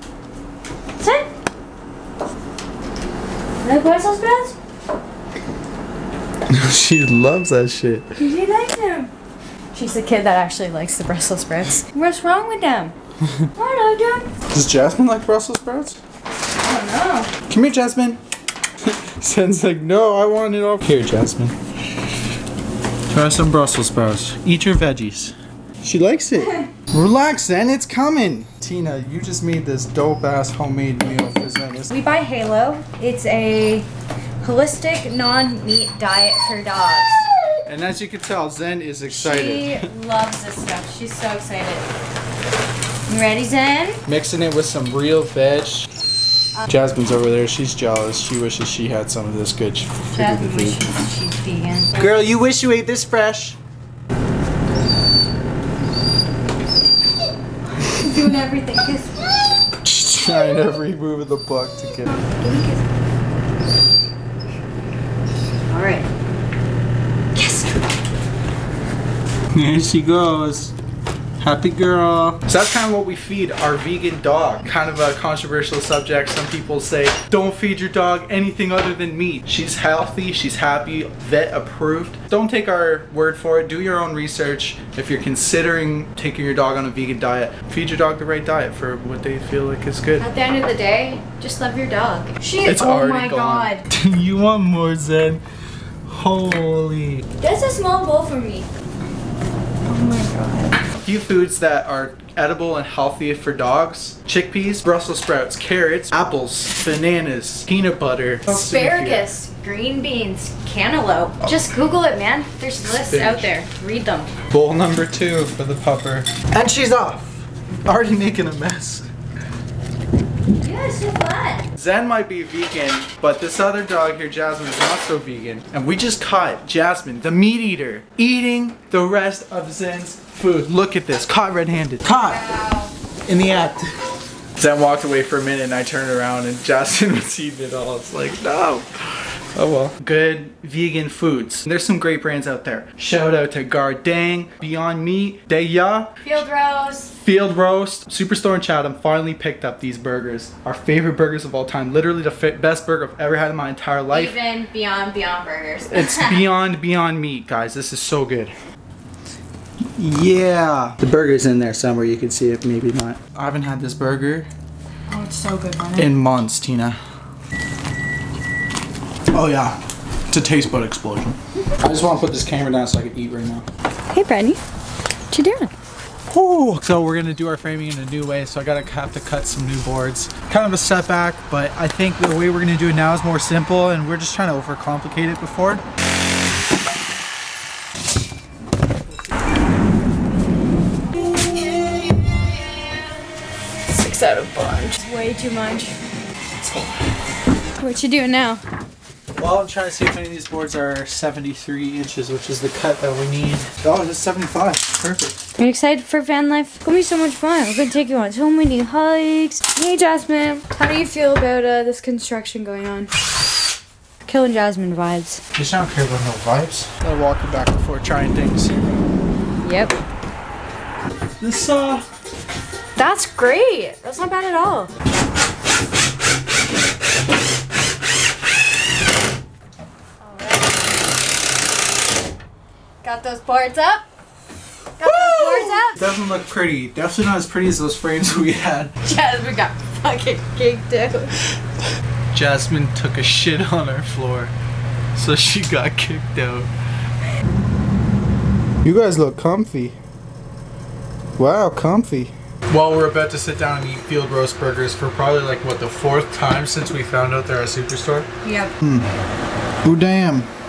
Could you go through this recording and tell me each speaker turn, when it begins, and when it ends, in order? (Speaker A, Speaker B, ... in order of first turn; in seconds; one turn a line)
Speaker A: 1.0-1.3
Speaker A: 3.6-4.5
Speaker B: 6.5-8.1
Speaker A: 8.2-9.1
Speaker A: 9.7-12.9
Speaker A: 13.5-14.3
Speaker B: 14.5-16.0
Speaker A: 16.6-17.3
Speaker B: 17.5-18.2
Speaker B: 18.8-21.5
Speaker B: 23.1-31.9
Speaker A: 26.3-26.7
Speaker A: 31.9-33.9
Speaker A: 34.4-37.3
Speaker B: 37.6-39.9
Speaker A: 39.1-41.8
Speaker A: 43.1-44.0
Speaker B: 44.0-45.9
Speaker B: 46.7-50.8
Speaker A: 50.1-52.0
Speaker B: 52.0-53.6
Speaker A: 57.8-59.3
Speaker B: 59.8-62.1
Speaker A: 62.1-62.8
Speaker A: 65.7-66.1
Speaker A: 67.3-67.9
Speaker B: 69.5-70.7
Speaker B: 71.4-90.3
Speaker A: 90.2-93.9
Speaker B: 92.6-95.4
Speaker B: 96.1-97.2
Speaker A: 97.4-98.7
Speaker A: 99.9-100.8
Speaker B: 101.0-109.3
Speaker A: 108.5-114.3
Speaker B: 112.8-113.5
Speaker B: 114.5-119.1
Speaker A: 120.5-121.7
Speaker B: 121.7-132.4
Speaker A: 132.1-132.9
Speaker B: 133.3-133.9
Speaker B: 134.6-138.9
Speaker B: 139.5-146.3
Speaker A: 146.2-147.1
Speaker B: 147.2-154.3
Speaker A: 154.1-156.4
Speaker B: 155.9-158.5
Speaker B: 159.9-164.5
Speaker A: 165.1-166.1
Speaker B: 165.9-167.0
Speaker B: 169.3-169.8
Speaker B: 170.3-173.7
Speaker A: 174.1-174.6
Speaker A: 175.3-175.7
Speaker B: 176.3-185.8
Speaker A: 193.9-195.9
Speaker B: 196.6-196.9
Speaker A: 197.8-198.6
Speaker B: 199.4-205.4
Speaker A: 205.6-213.1
Speaker A: 214.2-215.4
Speaker B: 215.5-218.7
Speaker A: 219.6-220.0
Speaker B: 221.4-222.0
Speaker A: 222.9-224.9
Speaker A: 230.2-230.8
Speaker A: 233.0-234.1
Speaker A: 235.0-236.0
Speaker B: 235.0-238.9
Speaker A: 239.0-241.4
Speaker B: 242.3-244.5
Speaker B: 245.2-246.7
Speaker B: 248.8-249.9
Speaker B: 251.4-258.3
Speaker A: 258.4-258.7
Speaker B: 258.8-259.1
Speaker B: 259.8-260.5